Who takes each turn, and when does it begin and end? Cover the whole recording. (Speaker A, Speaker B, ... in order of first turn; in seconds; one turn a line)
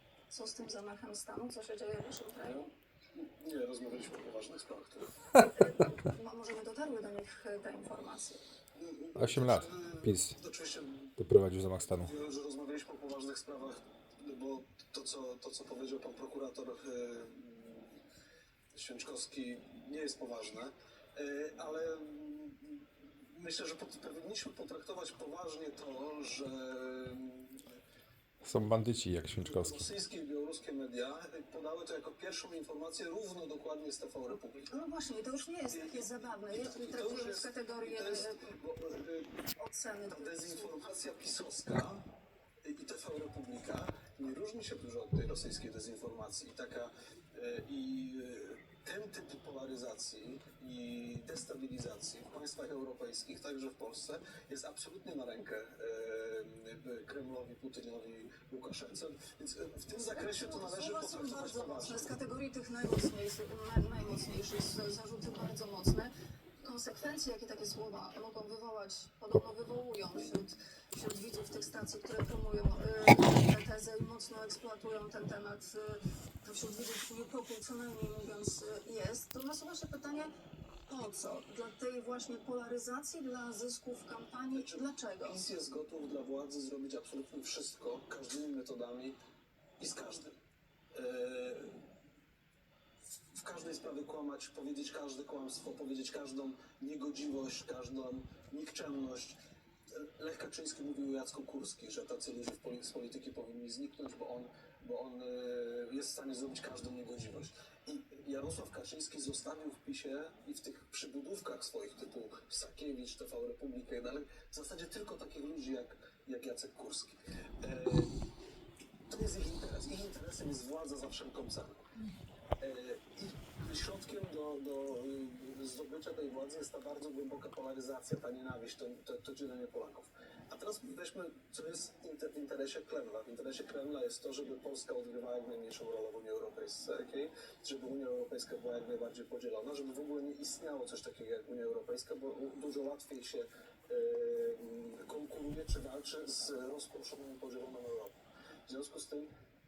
Speaker A: 0.3-2.7
Speaker B: 3.2-5.1
Speaker A: 5.4-8.4
Speaker B: 8.8-11.1
Speaker C: 9.2-10.3
Speaker C: 11.2-12.1
Speaker B: 11.9-18.0
Speaker B: 18.7-27.7
Speaker C: 28.4-29.9
Speaker B: 29.4-34.7
Speaker A: 34.7-38.4
Speaker B: 35.7-39.3
Speaker A: 39.6-40.8
Speaker B: 40.1-42.0
Speaker B: 42.6-62.2
Speaker A: 59.9-80.3
Speaker A: 80.9-85.5
Speaker B: 84.5-89.2
Speaker B: 89.8-90.3
Speaker B: 90.9-91.8
Speaker B: 93.3-99.4
Speaker B: 99.9-118.2
Speaker B: 119.1-121.9
Speaker B: 122.6-148.2
Speaker B: 148.7-149.3